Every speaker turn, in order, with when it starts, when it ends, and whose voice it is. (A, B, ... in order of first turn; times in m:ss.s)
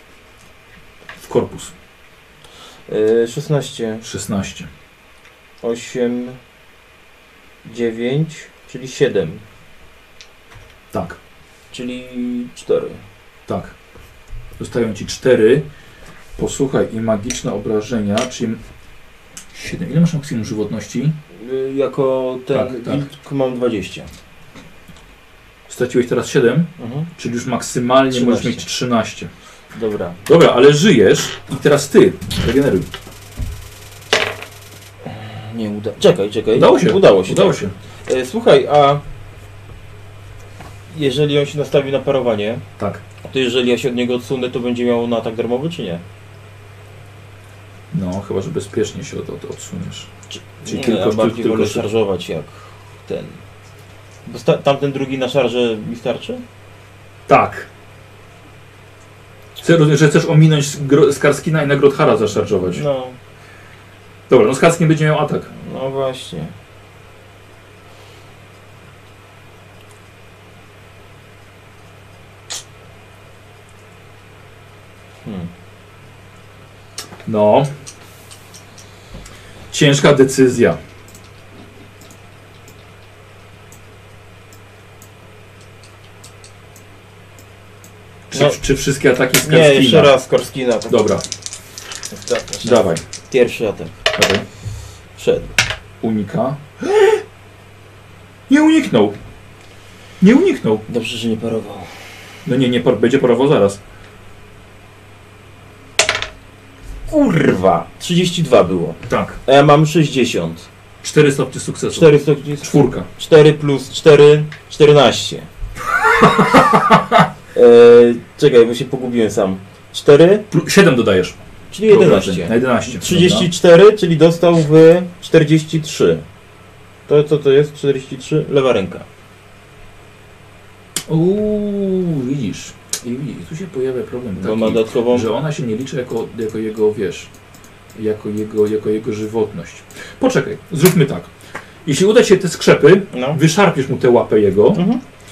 0:01.2-0:01.7 A
0:02.9-0:04.0 B
0:04.0-0:04.7 A
0:05.6-0:06.4 B
0:07.6-0:09.4 B
0:10.9-0:11.2 A
0:11.7-0:13.0 B
0:13.5-0:13.7 A
0:14.6-0:15.7 A
0:16.4-0:18.6 A
0:19.5-0:21.2 A
0:21.3-0:24.1 B
0:22.5-0:23.1 A
0:25.7-0:29.3 A
0:26.8-0:27.1 B
0:28.1-0:28.6 B
0:29.7-0:30.2 B
0:30.3-0:32.9 A
0:35.0-0:39.0 B
0:36.5-0:37.7 A
0:40.9-0:42.6 B
0:43.2-0:46.0 B
0:47.9-0:50.1 A
0:50.4-0:53.4 B
0:50.7-0:51.9 A
0:54.3-0:56.4 B
0:57.3-0:57.7 A
0:59.6-1:02.8 A
1:02.7-1:03.2 B
1:04.3-1:05.5 A
1:05.6-1:06.5 B
1:17.3-1:17.7 A
1:19.7-1:20.8 A
1:28.3-1:30.1 A
1:29.4-1:31.0 B
1:30.9-1:31.2 A
1:32.1-1:34.0 B
1:32.6-1:33.0 A
1:34.2-1:34.5 A
1:35.2-1:35.5 B
1:36.0-1:37.2 A
1:38.5-1:39.2 A
1:40.2-1:40.8 A
1:40.9-1:41.9 B
1:42.5-1:43.8 A
1:47.1-1:50.7 B
1:49.1-1:49.4 A
1:51.0-1:53.1 A
1:51.9-1:55.5 B
1:56.2-1:57.2 A
1:57.5-2:00.4 B
2:00.5-2:03.5 A
2:01.7-2:06.2 B
2:07.1-2:09.0 B
2:11.1-2:17.3 A
2:14.4-2:15.3 B
2:18.0-2:21.3 A
2:21.9-2:24.8 A
2:23.1-2:23.4 B
2:24.8-2:25.0 B